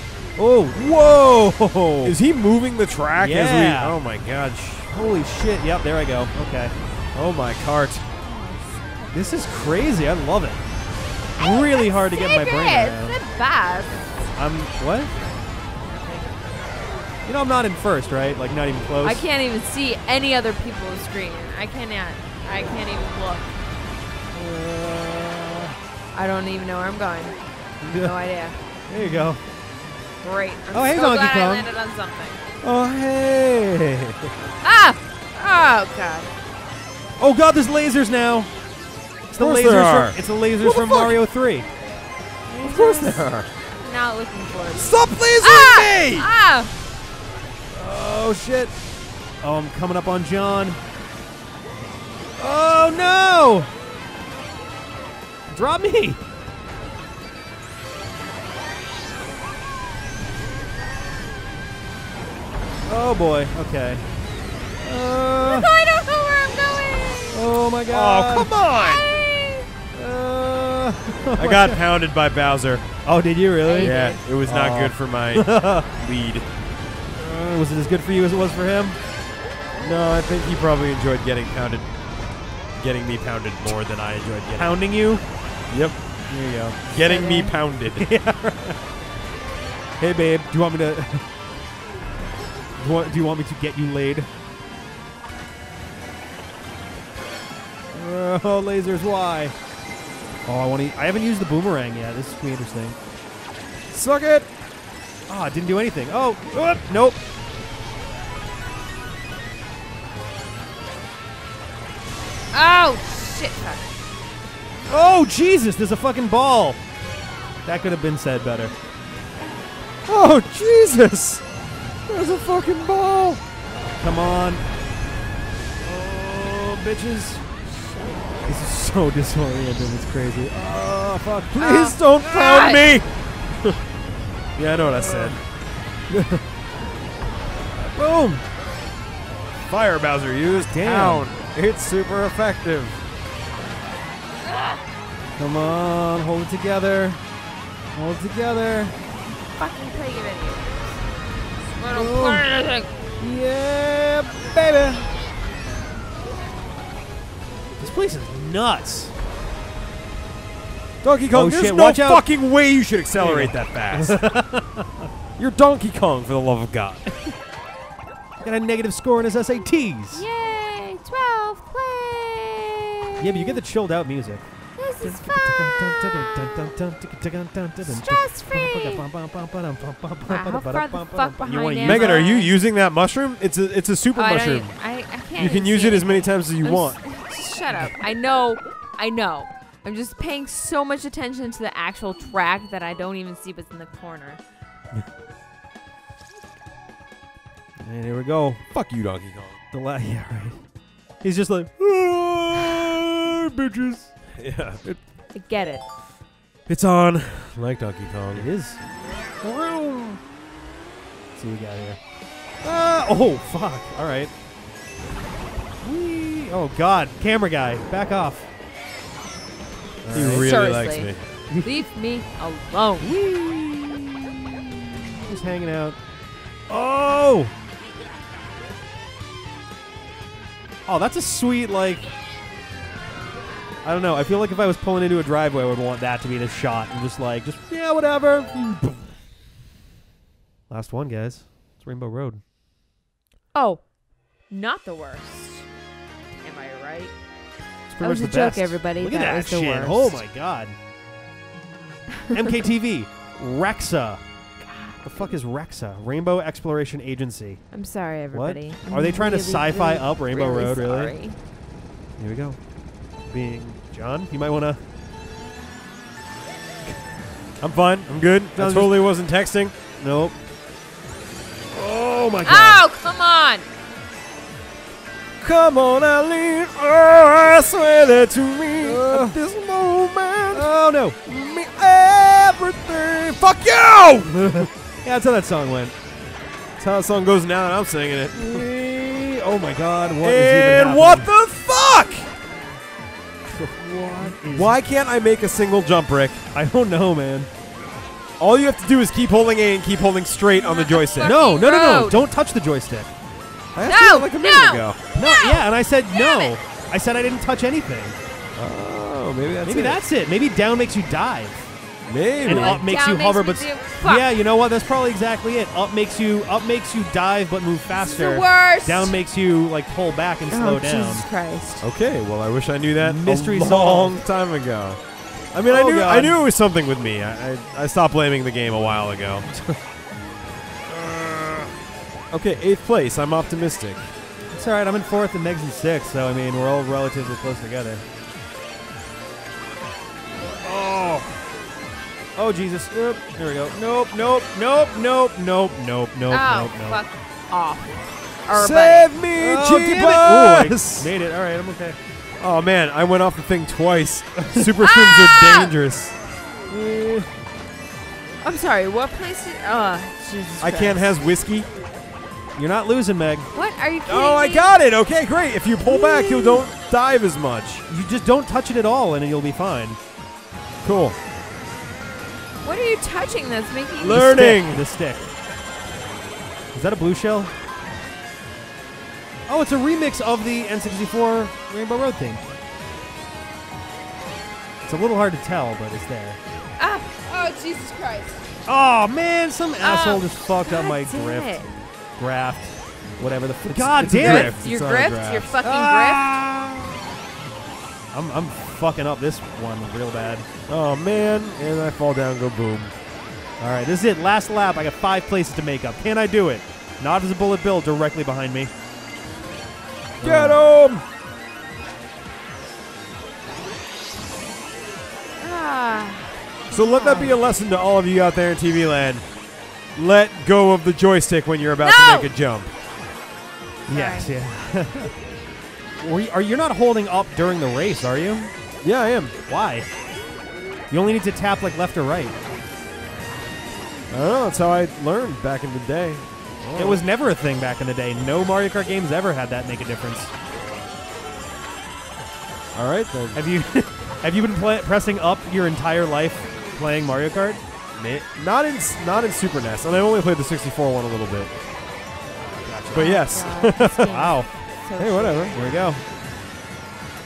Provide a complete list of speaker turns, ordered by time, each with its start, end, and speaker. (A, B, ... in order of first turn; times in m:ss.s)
0:00.4-0:02.1 A
0:00.8-0:01.1 B
0:02.0-0:04.9 B
0:03.2-0:04.0 A
0:04.9-0:06.7 A
0:07.1-0:08.1 B
0:08.2-0:09.4 C
0:09.1-0:10.6 A
0:11.4-0:13.2 A
0:11.4-0:14.0 C
0:14.4-0:15.1 A
0:16.0-0:16.2 C
0:17.2-0:19.2 A
0:19.0-0:23.6 C
0:24.3-0:25.7 A
0:26.1-0:29.3 C
0:27.8-0:28.1 A
0:28.9-0:29.4 A
0:30.2-0:32.4 C
0:30.7-0:31.7 A
0:32.6-0:34.3 B
0:34.6-0:36.3 C
0:37.2-0:38.5 A
0:39.3-0:41.7 A
0:39.4-0:41.2 B
0:42.5-0:43.2 C
0:42.6-0:43.5 B
0:43.8-0:46.7 C
0:44.7-0:46.3 B
0:47.7-0:48.7 B
0:49.4-0:50.8 A
0:52.4-0:53.7 A
0:55.5-0:56.2 A
1:02.9-1:04.0 A
1:04.8-1:05.7 A
1:05.4-1:07.4 C
1:07.3-1:08.5 A
1:07.9-1:09.1 B
1:08.8-1:09.7 C
1:09.9-1:11.8 A
1:11.4-1:12.9 B
1:13.0-1:15.9 A
1:13.6-1:14.2 C
1:13.8-1:16.5 B
1:17.2-1:19.0 A
1:19.8-1:21.9 B
1:22.8-1:24.7 B
1:24.5-1:25.2 A
1:25.7-1:26.0 B
1:26.3-1:26.8 A
1:26.9-1:28.1 B
1:27.0-1:27.5 C
1:28.0-1:28.8 A
1:30.0-1:31.2 A
1:32.8-1:34.3 A
1:37.9-1:39.5 A
1:40.4-1:43.0 A
1:43.9-1:44.5 B
1:45.3-1:47.2 A
1:52.5-1:53.9 C
1:54.9-1:56.8 A
1:57.6-1:58.7 A
2:00.0-2:01.4 B
2:02.1-2:03.4 B
2:04.0-2:04.6 A
2:05.8-2:07.5 A
2:08.4-2:11.6 A
2:11.5-2:13.1 B
2:11.6-2:12.8 C
2:14.6-2:15.4 B
2:15.0-2:15.4 A
2:16.1-2:16.4 A
2:17.9-2:18.4 A
2:19.6-2:23.0 B
2:20.7-2:21.3 A
2:24.4-2:24.8 C
2:25.4-2:27.2 A
2:27.9-2:29.0 A
2:29.6-2:30.7 C
2:31.7-2:32.9 C
2:31.9-2:32.5 A
2:33.2-2:35.1 A
2:37.8-2:39.1 A
2:41.0-2:44.2 B
2:41.3-2:42.2 A
2:43.1-2:45.1 A
2:45.4-2:47.0 B
2:48.4-2:50.2 A
2:50.1-2:53.6 C
2:53.2-2:54.4 A
2:54.8-2:55.6 C
2:55.0-3:02.3 A
2:57.8-2:59.0 C
3:00.2-3:02.5 C
3:01.8-3:04.8 B
3:04.1-3:14.4 C
3:05.4-3:07.0 B
3:17.8-3:18.6 A
3:18.7-3:19.6 B
3:19.7-3:20.6 A
3:21.2-3:24.2 A
3:24.3-3:24.8 B
3:25.3-3:25.8 C
3:26.7-3:28.5 B
3:28.3-3:28.8 A
3:29.4-3:30.2 A
3:31.3-3:32.0 A
3:32.6-3:34.3 A
3:35.8-3:38.5 A
3:40.0-3:40.6 A
3:40.1-3:41.2 B
3:40.2-3:43.2 C
3:41.5-3:41.8 A
3:43.0-3:44.5 A
3:45.2-3:46.0 A
3:46.7-3:47.5 A
3:50.8-3:52.0 A
3:53.8-3:59.1 A
4:00.7-4:02.4 A
4:03.5-4:03.8 C
4:04.5-4:05.6 C
4:06.4-4:07.1 C
4:07.9-4:10.8 A
4:08.0-4:10.2 C
4:12.1-4:12.5 C
4:12.3-4:14.2 A
4:14.6-4:15.0 C
4:15.0-4:17.6 A
4:17.7-4:21.4 C
4:18.3-4:21.1 A
4:22.2-4:22.6 A
4:23.3-4:24.8 A
4:27.6-4:29.7 B
4:28.6-4:29.0 A
4:30.0-4:30.4 A
4:31.7-4:32.8 A
4:32.4-4:33.6 C
4:35.4-4:40.7 B
4:38.8-4:39.4 A
4:40.5-4:41.2 A
4:41.2-4:44.4 B
4:44.3-4:45.9 A
4:46.8-4:48.7 B
4:48.3-4:51.3 A
4:50.2-4:52.3 B
4:53.5-4:54.8 A
4:54.4-4:56.4 B
4:56.5-4:57.5 A
4:58.4-5:01.4 B
5:00.5-5:02.2 C
5:01.2-5:03.1 A
5:03.7-5:05.0 B
5:03.8-5:06.5 C
5:05.2-5:08.2 A
5:08.6-5:10.0 B
5:09.6-5:11.7 A
5:12.0-5:12.8 B
5:12.4-5:14.3 C
5:12.4-5:21.2 A
5:17.9-5:19.1 C
5:20.5-5:21.8 C
5:21.8-5:25.0 B
5:23.0-5:24.2 A
5:25.5-5:29.5 B
5:25.7-5:26.4 A
5:29.5-5:29.8 A
5:30.9-5:31.7 A
5:32.3-5:34.1 B
5:34.5-5:38.0 A
5:40.6-5:41.3 A
5:42.4-5:47.0 A
5:46.3-5:49.1 C
5:48.5-5:51.1 B
5:49.4-5:52.0 A
5:52.4-5:56.2 B
5:54.4-5:54.7 A
5:54.8-5:55.7 C
5:56.7-5:57.2 A
5:58.4-6:01.0 C
6:00.6-6:01.7 B
6:02.6-6:03.5 A
6:03.5-6:04.7 C
6:04.0-6:07.8 B
6:05.9-6:06.6 C
6:07.9-6:10.0 A
6:10.8-6:11.2 B
6:12.6-6:14.2 C
6:14.0-6:14.8 B
6:14.1-6:15.3 A
6:16.7-6:17.5 A
6:19.5-6:22.4 A
6:24.8-6:26.4 A
6:26.8-6:28.4 C
6:28.7-6:31.6 A
6:29.8-6:31.7 C
6:32.2-6:34.5 A
6:33.6-6:35.5 B
6:34.1-6:36.3 C
6:35.6-6:36.9 A
6:38.1-6:40.5 A
6:40.7-6:42.9 B
6:43.6-6:48.7 A
6:50.2-6:50.6 A
6:50.2-6:51.0 B
6:55.4-6:57.3 C
6:56.7-6:59.2 B
6:59.9-7:02.7 B
7:01.8-7:02.3 C
7:03.9-7:05.1 A
7:03.9-7:04.3 C
7:06.0-7:08.5 A
7:08.8-7:09.3 B
7:09.5-7:09.9 A
7:10.9-7:12.4 A
7:14.1-7:17.0 B
7:16.7-7:20.3 A
7:22.7-7:23.4 B
7:23.3-7:27.6 A
7:28.0-7:31.5 B
7:32.4-7:34.5 A
7:32.9-7:33.9 B
7:32.9-7:35.7 C
7:35.0-7:35.5 B
7:35.5-7:36.0 A